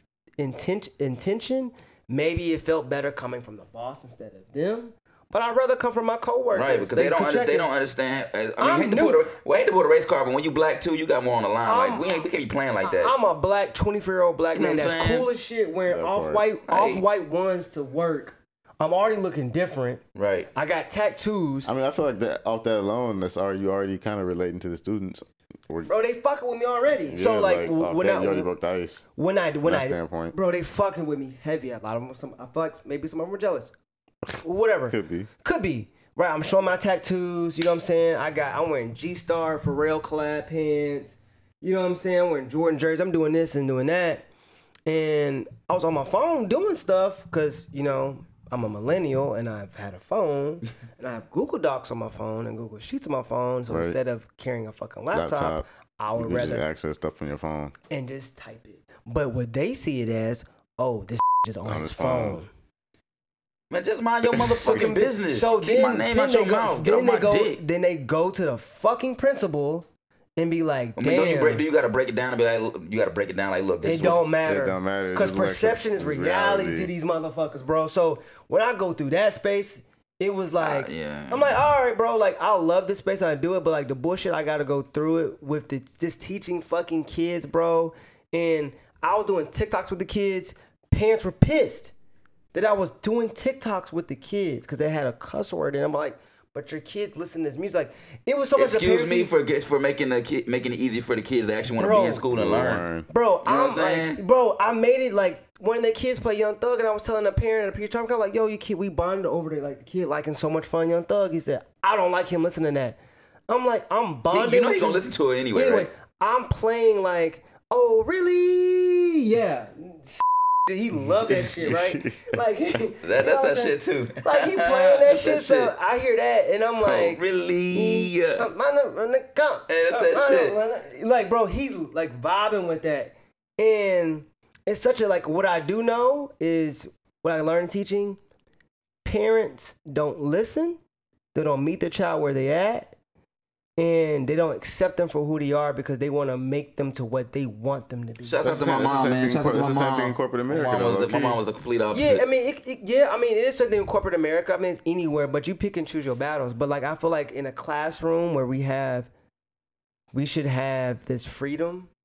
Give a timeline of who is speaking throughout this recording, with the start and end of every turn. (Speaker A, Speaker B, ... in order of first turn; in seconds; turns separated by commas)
Speaker A: 0.4-7.7, Speaker B: 6.5-13.2, Speaker A: 8.6-9.3, Speaker A: 11.7-12.2, Speaker A: 12.8-20.0, Speaker B: 14.5-15.3, Speaker C: 15.9-16.4, Speaker B: 16.7-17.0, Speaker B: 20.1-20.5, Speaker A: 20.5-21.7, Speaker C: 21.7-25.9, Speaker A: 25.9-28.5, Speaker C: 27.1-29.1, Speaker A: 29.2-33.7, Speaker C: 29.6-30.4, Speaker A: 34.4-44.2, Speaker C: 34.9-35.3, Speaker A: 44.9-56.6, Speaker C: 53.7-54.0, Speaker C: 55.1-55.7, Speaker C: 56.2-57.7, Speaker A: 57.9-62.5, Speaker C: 61.6-62.4, Speaker B: 63.7-67.6, Speaker C: 64.4-65.0, Speaker A: 64.6-69.9, Speaker A: 70.4-71.7, Speaker B: 71.0-74.2, Speaker A: 73.8-91.9, Speaker C: 74.5-76.9, Speaker B: 80.6-81.6, Speaker A: 92.5-99.3, Speaker B: 98.6-102.8, Speaker A: 101.8-102.3, Speaker C: 102.3-103.1, Speaker A: 103.1-113.0, Speaker B: 103.5-104.2, Speaker A: 113.5-138.2, Speaker B: 114.3-115.9, Speaker C: 121.4-122.2, Speaker B: 123.0-125.7, Speaker B: 126.8-128.5, Speaker B: 129.7-130.6, Speaker A: 139.0-140.8, Speaker A: 141.3-143.0, Speaker A: 143.8-148.5, Speaker B: 148.2-152.2, Speaker C: 148.4-151.4, Speaker A: 151.9-159.1, Speaker A: 160.1-161.9